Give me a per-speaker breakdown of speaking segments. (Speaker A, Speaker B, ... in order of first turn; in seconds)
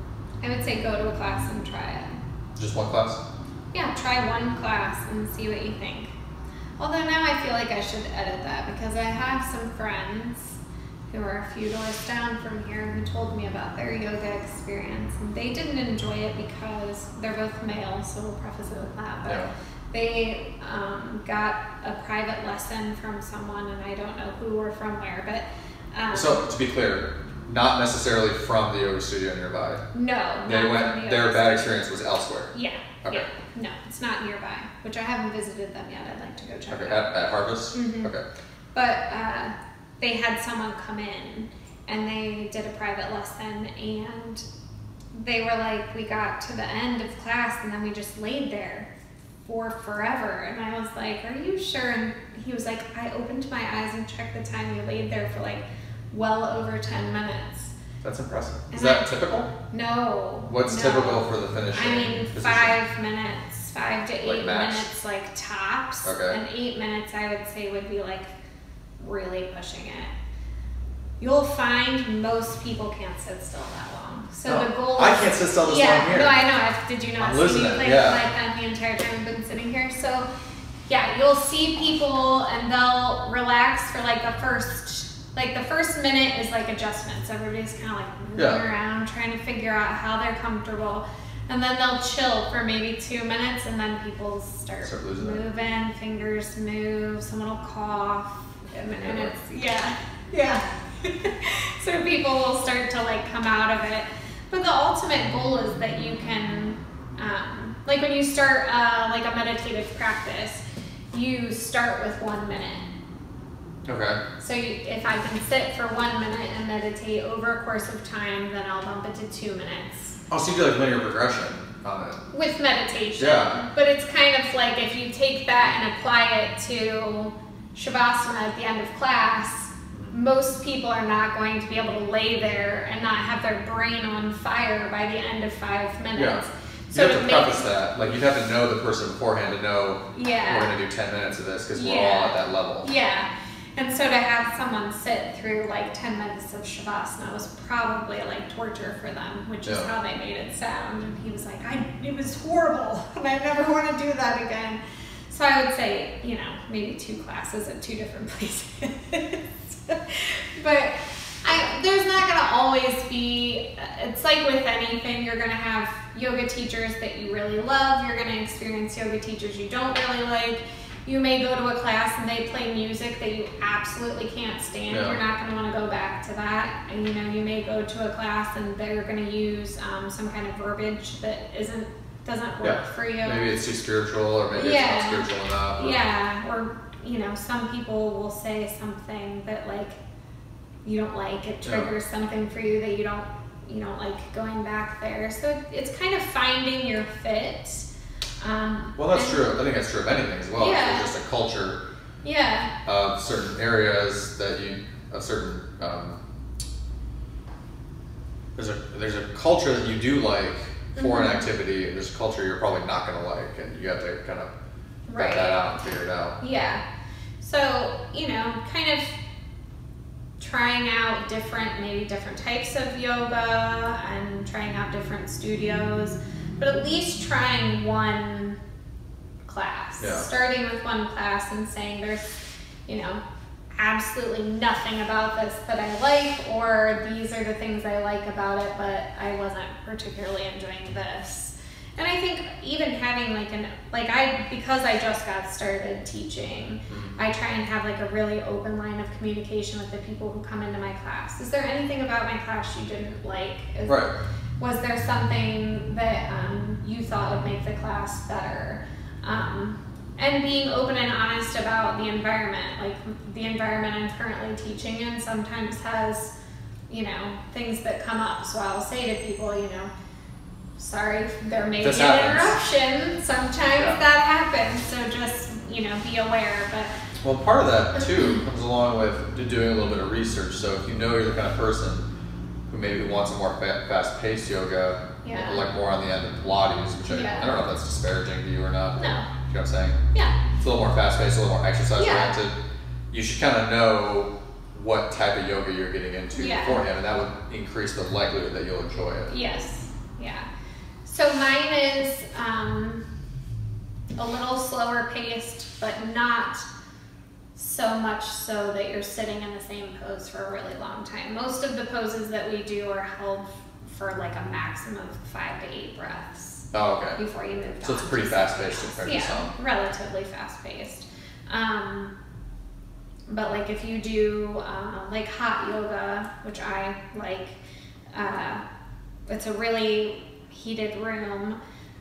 Speaker A: 0.4-2.1, 3.7-6.1, 6.8-10.6, 11.1-26.4, 29.9-31.8, 32.5-37.1, 37.7-38.1, 38.7-44.4, 45.1-48.9, 49.4-57.7, 58.7-59.1, 59.7-68.3, 69.0-70.1, 71.2-80.3, 80.9-112.8, 114.4-120.2, 122.3-137.6, 140.1-140.7, 141.7-183.5, 184.6-190.0, 190.8-197.9, 198.4-199.5, 200.6-201.1, 202.2-202.7, 210.9-211.4, 215.1-215.6, 216.4-216.8, 217.4-219.1, 220.4-228.6, 229.4-233.2, 233.8-254.1, 254.6-266.3, 266.9-269.9, 270.8-276.9, 285.2-285.6, 287.1-287.5, 288.9-289.3, 291.9-292.3, 296.3-296.8, 299.3-300.5, 301.0-303.0, 304.1-306.6, 307.6-322.1, 323.3-327.6, 328.1-328.6, 329.3-331.6
Speaker B: 2.5-3.2, 19.2-19.5, 26.1-29.8, 30.4-33.3, 36.7-38.2, 58.0-59.5, 60.5-62.7, 64.2-64.9, 66.0-66.4, 74.5-76.4, 77.2-78.2, 88.4-88.6, 94.8-95.4, 99.0-99.3, 113.8-114.2, 120.3-122.2, 123.2-123.6, 136.2-142.9, 149.7-149.9, 174.9-175.2, 182.6-186.0, 191.6-191.9, 199.0-201.8, 202.8-206.2, 208.6-214.5, 215.1-216.4, 230.0-230.2, 253.8-254.1, 271.8-272.6, 273.8-274.0, 277.2-282.1, 282.7-290.0, 290.6-292.5, 293.1-299.3, 316.7-317.2, 317.8-319.5